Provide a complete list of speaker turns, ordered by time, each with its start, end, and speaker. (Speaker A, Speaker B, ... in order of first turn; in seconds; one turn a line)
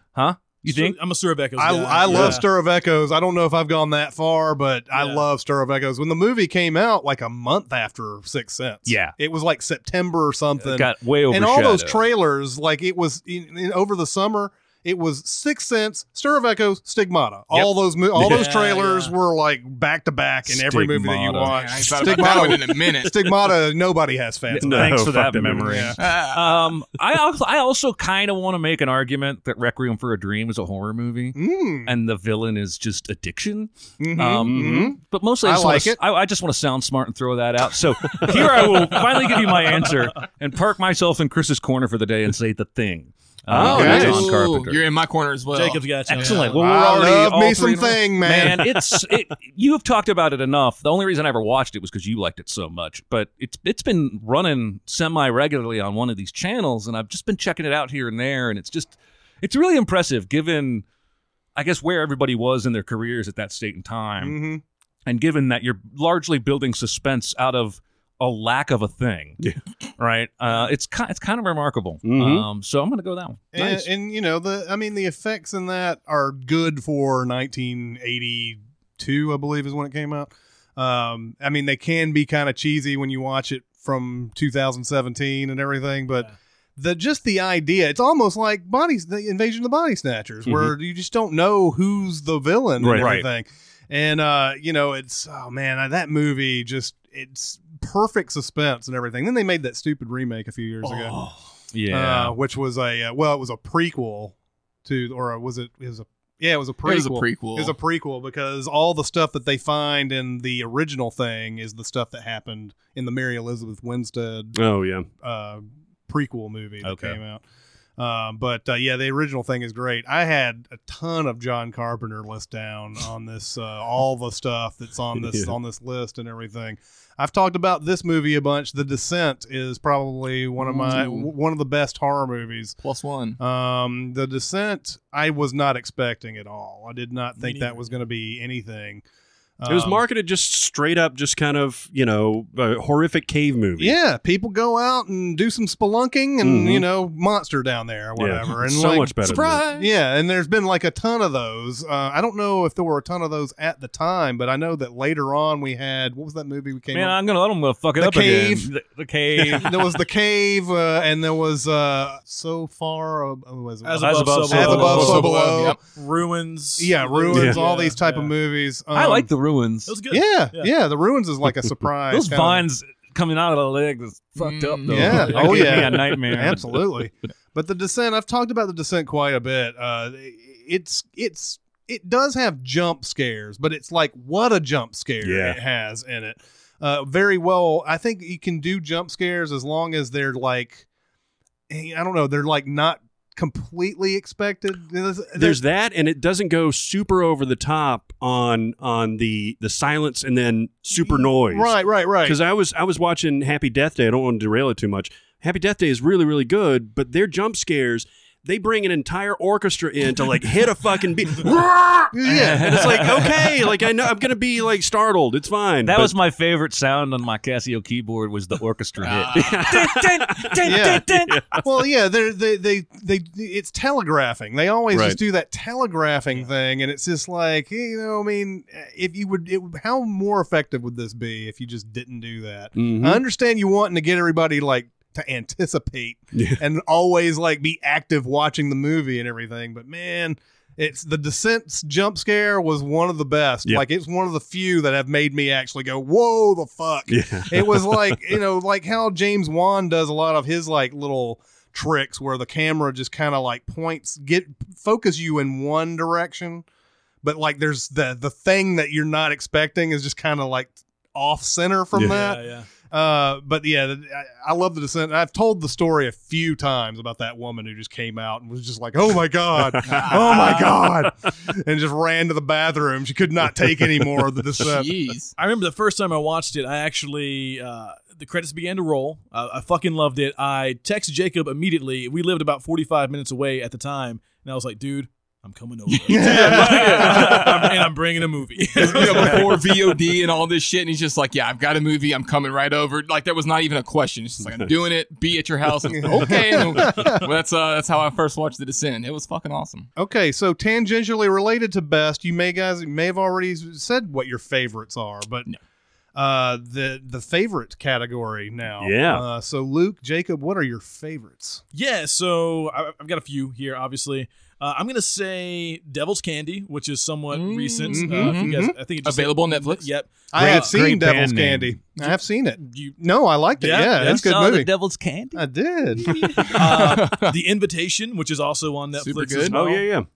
Speaker A: 0.1-1.0
Speaker B: 0.7-2.5
Speaker C: 1.6-26.0
Speaker D: 2.1-2.4
Speaker B: 4.9-5.2
Speaker A: 8.9-9.2
Speaker A: 10.6-12.0
Speaker A: 17.5-18.4
Speaker B: 18.2-19.1
Speaker A: 20.5-22.3
Speaker E: 21.5-23.3
Speaker A: 24.5-44.8
Speaker D: 24.6-26.0
Speaker E: 26.0-26.4
Speaker C: 31.3-31.9
Speaker C: 34.0-36.0
Speaker D: 34.4-35.0
Speaker D: 38.1-38.5
Speaker D: 43.5-44.3
Speaker C: 43.6-44.2
Speaker E: 43.6-46.5
Speaker B: 45.5-46.6
Speaker A: 46.1-60.9
Speaker C: 46.6-48.7
Speaker A: 61.6-64.4
Speaker C: 64.2-64.6
Speaker A: 65.1-69.4
Speaker A: 70.0-73.9
Speaker D: 72.0-72.5
Speaker C: 73.5-101.2
Speaker D: 90.5-90.7
Speaker A: 92.8-93.3
Speaker E: 100.8-101.3
Speaker A: 101.7-102.4
Speaker C: 101.9-114.6
Speaker E: 106.8-107.8
Speaker D: 114.5-115.1
Speaker C: 115.2-117.4
Speaker A: 116.8-117.2
Speaker C: 118.0-132.8
Speaker D: 125.2-125.5
Speaker E: 130.6-131.3
Speaker E: 132.8-133.4
Speaker C: 133.4-139.0
Speaker B: 137.4-137.9
Speaker C: 139.6-140.0
Speaker D: 139.7-143.9
Speaker C: 143.8-149.2
Speaker D: 146.4-146.8
Speaker D: 148.2-149.7
Speaker E: 149.2-149.9
Speaker C: 149.7-157.2
Speaker A: 156.9-159.9
Speaker C: 158.0-158.7
Speaker C: 159.4-165.8
Speaker B: 163.8-165.3
Speaker A: 164.0-165.3
Speaker E: 164.8-165.8
Speaker B: 165.9-168.3
Speaker C: 166.8-169.3
Speaker D: 167.3-167.6
Speaker A: 168.9-170.0
Speaker B: 169.9-170.7
Speaker C: 170.1-172.7
Speaker A: 172.1-176.8
Speaker E: 174.4-175.2
Speaker C: 174.9-190.8
Speaker D: 175.6-175.9
Speaker D: 185.2-185.6
Speaker C: 191.7-195.6
Speaker D: 195.4-216.2
Speaker C: 201.0-202.4
Speaker C: 212.1-213.0
Speaker A: 212.3-213.7
Speaker A: 215.8-221.5
Speaker E: 219.0-219.7
Speaker D: 219.3-221.6
Speaker C: 220.6-256.6
Speaker D: 224.9-225.2
Speaker D: 232.8-233.2
Speaker D: 236.3-236.6
Speaker D: 247.1-248.3
Speaker C: 257.2-274.9
Speaker D: 261.9-262.2
Speaker B: 262.0-262.7
Speaker D: 269.6-270.9
Speaker E: 269.9-270.6
Speaker E: 274.6-275.4
Speaker B: 275.4-289.7
Speaker E: 286.1-287.7
Speaker C: 286.1-287.4
Speaker E: 288.8-299.9
Speaker C: 296.0-297.2
Speaker C: 300.0-305.5
Speaker C: 306.2-311.6
Speaker D: 308.8-309.2
Speaker B: 311.7-320.8
Speaker E: 317.3-319.9
Speaker C: 317.9-318.8
Speaker C: 320.3-324.7
Speaker A: 320.4-321.8
Speaker B: 322.0-323.0
Speaker B: 323.6-324.2
Speaker A: 323.9-325.5
Speaker C: 325.3-326.5
Speaker E: 326.3-327.4
Speaker B: 326.5-329.6
Speaker E: 329.0-329.5
Speaker D: 329.5-330.1
Speaker A: 329.6-329.9